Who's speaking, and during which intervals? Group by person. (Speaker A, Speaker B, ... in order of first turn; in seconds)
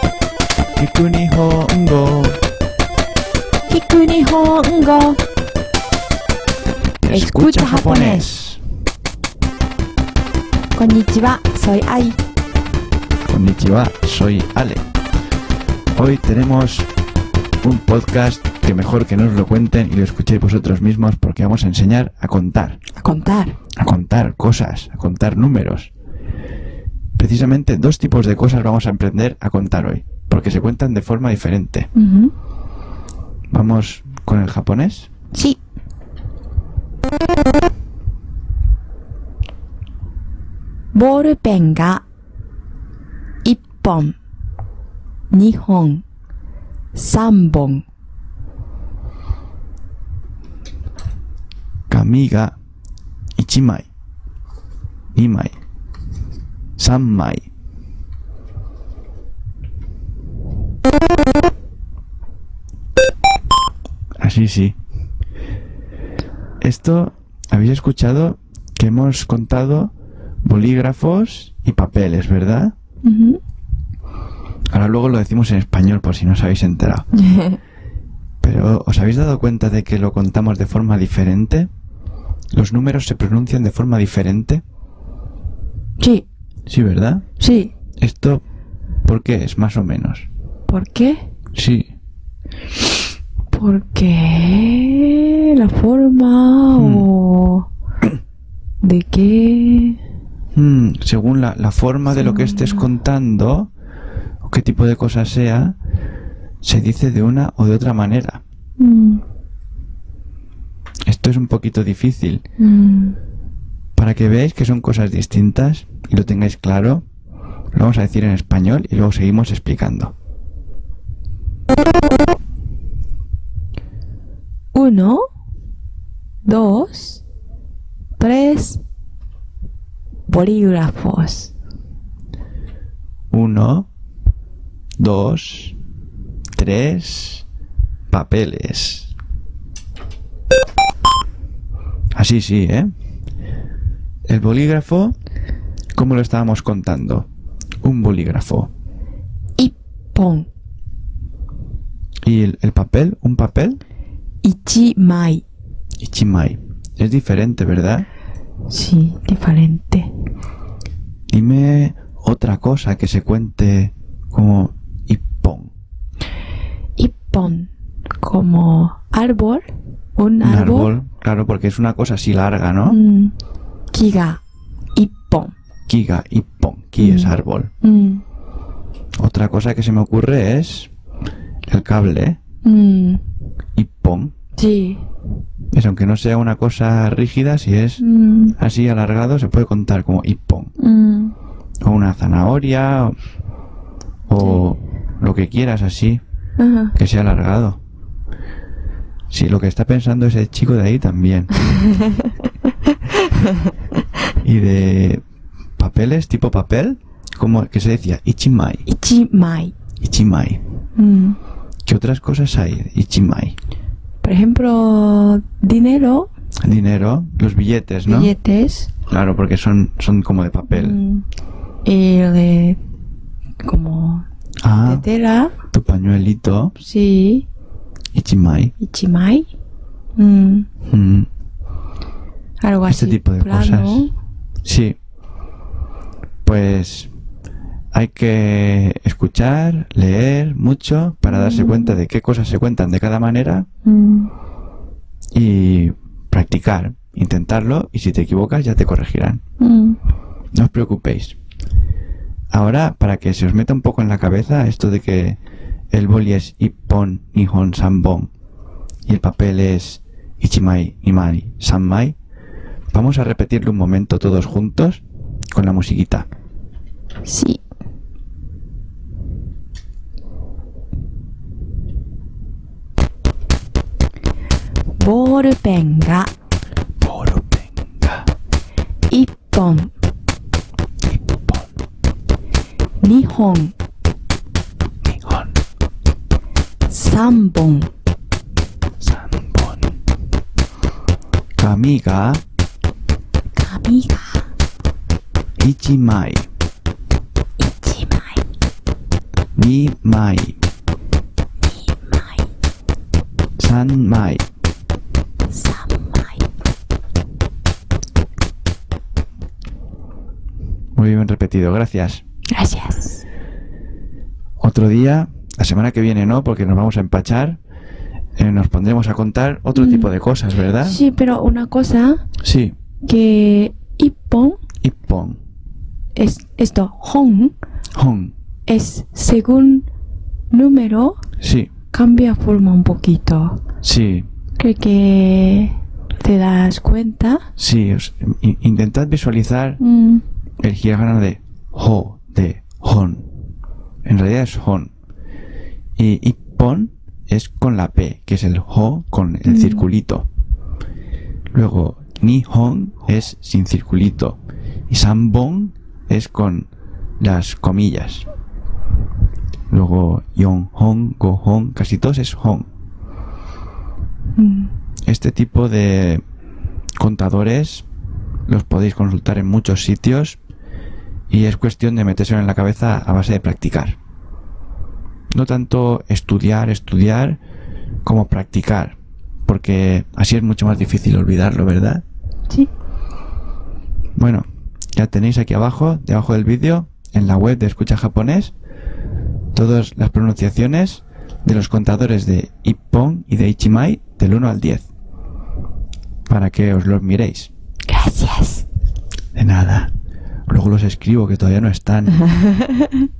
Speaker A: 0.8-2.4, 7.0-8.6, 13.3-14.8, 15.9-16.9, 17.6-22.8, 23.8-25.9, 27.2-31.9, 33.5-35.1, 51.9-52.5, 53.4-53.9, 55.1-55.5, 56.8-57.5, 64.2-64.8, 66.6-69.9, 70.4-72.7, 74.7-77.1, 78.4-81.7, 82.5-84.6, 86.7-87.2, 88.0-88.4, 89.0-90.3, 91.5-91.9, 96.7-97.1, 100.5-103.7, 104.4-105.8, 106.6-108.4, 111.1-112.4, 114.0-117.0, 117.7-120.1, 133.3-133.9, 135.0-135.8, 136.5-137.4, 138.1-139.1, 142.1-142.9, 144.2-145.1, 145.9-147.3, 147.8-148.7, 152.2-153.8, 156.0-158.1, 161.3-165.7, 170.4-173.0, 175.9-177.7, 179.2-180.9, 181.7-182.4, 183.8-184.3, 185.7-188.0, 188.6-190.7, 191.8-193.1, 194.3-196.2, 196.9-197.8, 199.3-201.5, 204.4-205.2, 205.8-208.8, 210.0-210.6, 211.8-213.6, 216.6-218.3, 219.1-221.0, 224.6-225.1, 225.7-226.7, 228.1-228.7, 230.8-231.3, 232.8-234.1, 234.6-234.9, 236.4-237.1, 237.9-243.7, 245.3-249.4, 250.5-251.3, 252.5-255.4, 255.9-258.3, 259.1-262.2, 262.9-266.3, 277.0-278.2, 281.1-281.6, 285.0-285.5, 289.0-289.9, 291.6-292.4, 295.6-296.5, 299.6-300.6, 303.6-304.4, 310.9-312.2, 314.6-317.6, 318.4-321.0, 322.4-322.7, 324.8-325.4, 327.9-328.3, 331.4-331.7, 333.8-334.3, 337.6-339.8, 340.6-343.3, 344.0-344.9, 346.0-350.3, 351.5-354.4, 354.9-356.7, 357.2-358.3, 359.7-362.7, 365.1-366.2, 367.0-367.9, 368.5-370.4, 371.3-374.0, 375.3-377.4, 378.0-382.0, 384.1-388.5, 389.5-394.9, 396.3-397.5, 399.3-399.9, 400.5-402.2
Speaker B: 3.7-5.2, 7.1-8.3, 10.7-12.2, 22.9-23.6, 31.9-32.3, 35.3-35.6, 40.9-42.0, 43.4-44.1, 45.3-46.0, 46.9-47.8, 73.0-73.4, 77.2-77.6, 86.0-86.2, 87.4-87.7, 90.7-91.2, 93.5-97.7, 98.8-100.0, 102.1-102.9, 108.8-109.2, 112.6-113.2, 124.7-125.2, 126.4-127.2, 128.2-128.8, 130.3-131.5, 149.6-150.5, 154.4-155.4, 158.7-160.1, 167.0-170.9, 172.9-173.3, 173.9-174.4, 174.9-175.5, 177.0-178.2, 182.6-183.2, 184.6-185.0, 188.0-188.6, 190.8-191.3, 196.6-196.9, 208.8-209.7, 210.9-211.4, 214.2-216.3, 218.1-218.9, 220.7-221.2, 221.8-222.8, 223.6-224.2, 224.8-225.5, 226.8-227.5, 228.8-229.5, 230.2-230.7, 232.6-234.1, 241.3-242.0, 243.8-244.3, 249.6-250.0, 267.2-267.6, 275.0-276.3, 279.1-279.9, 283.0-283.7, 286.9-287.9, 293.6-294.5, 297.6-298.4, 301.7-302.4, 305.5-306.4, 312.5-313.2, 319.7-320.1, 320.8-322.2, 323.0-324.6, 326.1-327.5, 328.7-329.9, 330.5-331.2, 331.9-333.6, 334.6-337.4, 339.8-340.2, 349.4-349.9, 364.4-364.7, 397.9-398.6, 402.3-402.9